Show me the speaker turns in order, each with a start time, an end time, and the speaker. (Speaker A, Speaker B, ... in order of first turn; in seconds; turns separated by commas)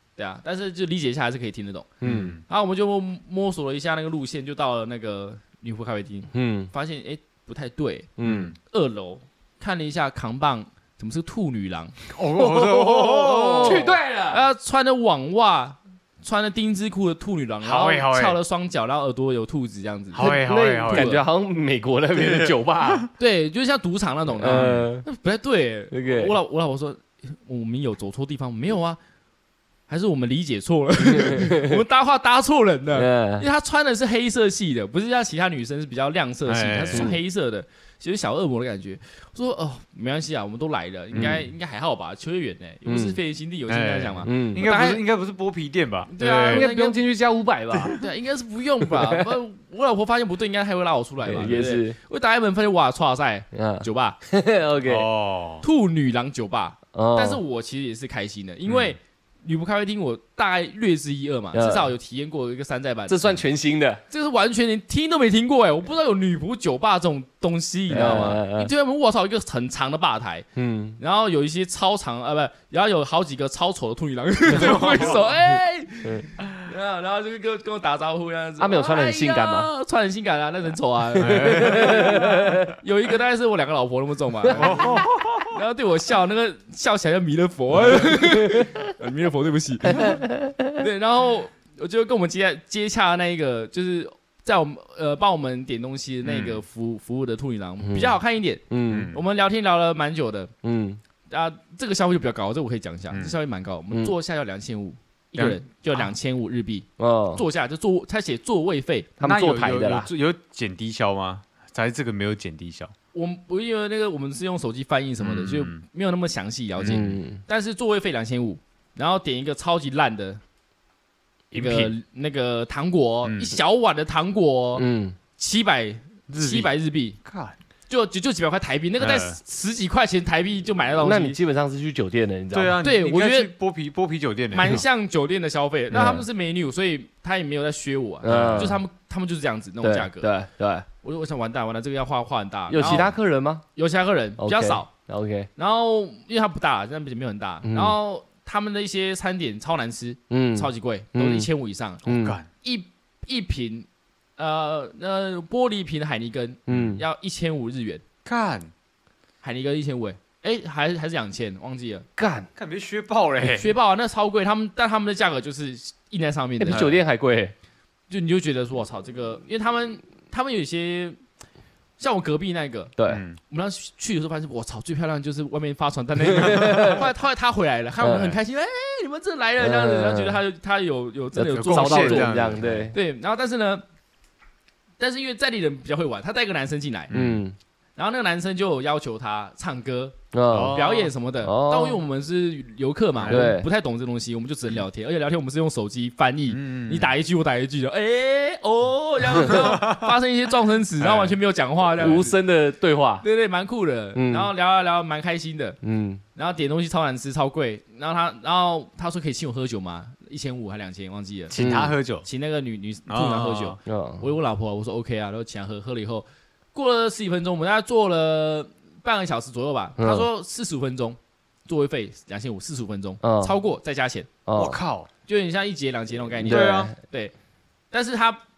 Speaker A: 0.2-1.9, Speaker B: 2.0-2.4, Speaker C: 2.0-2.4, Speaker A: 2.5-8.1, Speaker B: 6.3-6.7, Speaker B: 8.2-8.5, Speaker C: 8.2-8.6, Speaker A: 8.7-12.0, Speaker C: 12.1-13.9, Speaker B: 12.4-14.4, Speaker A: 13.2-20.4, Speaker C: 17.6-18.4, Speaker C: 20.1-21.2, Speaker B: 20.2-23.1, Speaker A: 20.9-21.2, Speaker C: 22.1-23.1, Speaker A: 23.2-29.0, Speaker B: 24.4-25.1, Speaker C: 24.5-24.9, Speaker B: 25.9-26.3, Speaker A: 29.9-45.1, Speaker B: 31.1-31.8, Speaker B: 32.9-33.5, Speaker C: 36.5-37.2, Speaker B: 42.9-43.2, Speaker C: 43.7-46.7, Speaker B: 44.2-44.7, Speaker A: 46.1-47.0, Speaker B: 46.5-48.0, Speaker C: 47.7-48.0, Speaker A: 48.0-54.2, Speaker B: 49.0-49.4, Speaker B: 51.2-52.0, Speaker B: 53.5-55.1, Speaker C: 54.9-55.6, Speaker A: 55.6-63.3, Speaker B: 56.9-57.4, Speaker B: 61.5-61.9, Speaker B: 63.1-64.0, Speaker A: 64.1-70.5, Speaker B: 67.9-68.7, Speaker C: 67.9-68.3, Speaker B: 70.6-71.0, Speaker A: 71.0-100.5, Speaker C: 74.5-75.2, Speaker B: 74.6-75.0, Speaker B: 78.6-79.7, Speaker C: 81.2-82.3, Speaker B: 81.2-82.7, Speaker C: 84.5-85.5, Speaker B: 90.0-90.6, Speaker C: 96.2-96.6, Speaker B: 97.8-98.2, Speaker B: 98.7-99.1, Speaker C: 98.9-99.2, Speaker B: 100.6-101.0, Speaker A: 101.3-109.2, Speaker C: 105.4-106.0, Speaker B: 107.0-107.4, Speaker B: 109.2-110.1, Speaker C: 109.2-112.9, Speaker A: 113.1-120.4, Speaker C: 115.2-115.8, Speaker B: 116.9-117.4, Speaker C: 121.5-121.9, Speaker A: 121.5-127.2, Speaker C: 123.2-123.5, Speaker B: 124.8-125.2, Speaker C: 126.3-126.7, Speaker C: 127.2-127.6, Speaker A: 127.9-131.4, Speaker C: 129.0-129.4, Speaker B: 131.0-132.8, Speaker C: 132.5-134.8, Speaker A: 132.8-133.5, Speaker A: 134.5-140.4, Speaker B: 135.9-136.3, Speaker B: 138.2-138.8, Speaker C: 138.3-138.8, Speaker B: 139.8-140.9, Speaker A: 141.0-143.1, Speaker B: 142.7-143.7, Speaker A: 143.8-144.9, Speaker B: 144.4-145.5, Speaker A: 145.6-152.1, Speaker B: 147.6-148.0, Speaker B: 150.3-151.5, Speaker B: 152.1-152.4, Speaker C: 152.1-152.5, Speaker A: 152.6-158.0, Speaker B: 156.7-157.0, Speaker C: 156.7-157.0, Speaker C: 158.2-158.7, Speaker A: 159.4-162.1, Speaker B: 162.2-162.5, Speaker C: 162.6-163.7, Speaker A: 163.4-166.9, Speaker B: 166.6-167.5, Speaker A: 168.1-171.2, Speaker A: 172.0-172.9, Speaker B: 173.0-173.2, Speaker C: 173.1-173.4, Speaker A: 173.5-183.8, Speaker B: 176.3-177.0, Speaker B: 178.0-178.4, Speaker B: 179.6-180.4, Speaker B: 181.4-182.9, Speaker C: 181.6-182.9, Speaker A: 185.0-187.1, Speaker C: 187.1-187.4, Speaker B: 187.1-187.6, Speaker A: 188.0-190.2, Speaker B: 190.3-190.8, Speaker C: 190.5-191.1, Speaker A: 190.7-202.4, Speaker B: 191.4-192.0, Speaker C: 193.2-193.5, Speaker B: 193.3-193.7, Speaker C: 196.5-197.1, Speaker C: 199.5-200.1, Speaker C: 201.0-201.4, Speaker B: 202.0-203.2, Speaker C: 202.0-202.3, Speaker A: 203.2-205.8, Speaker B: 204.2-204.5, Speaker B: 205.8-206.2, Speaker A: 206.3-211.6, Speaker C: 211.5-212.3, Speaker B: 211.6-212.0, Speaker A: 212.2-224.3, Speaker C: 213.1-213.8, Speaker B: 213.9-214.2, Speaker B: 220.0-220.3, Speaker B: 223.2-223.6, Speaker B: 224.5-224.8, Speaker C: 224.6-225.1, Speaker A: 225.3-227.3, Speaker B: 226.4-226.9, Speaker C: 226.4-226.9, Speaker A: 227.9-228.4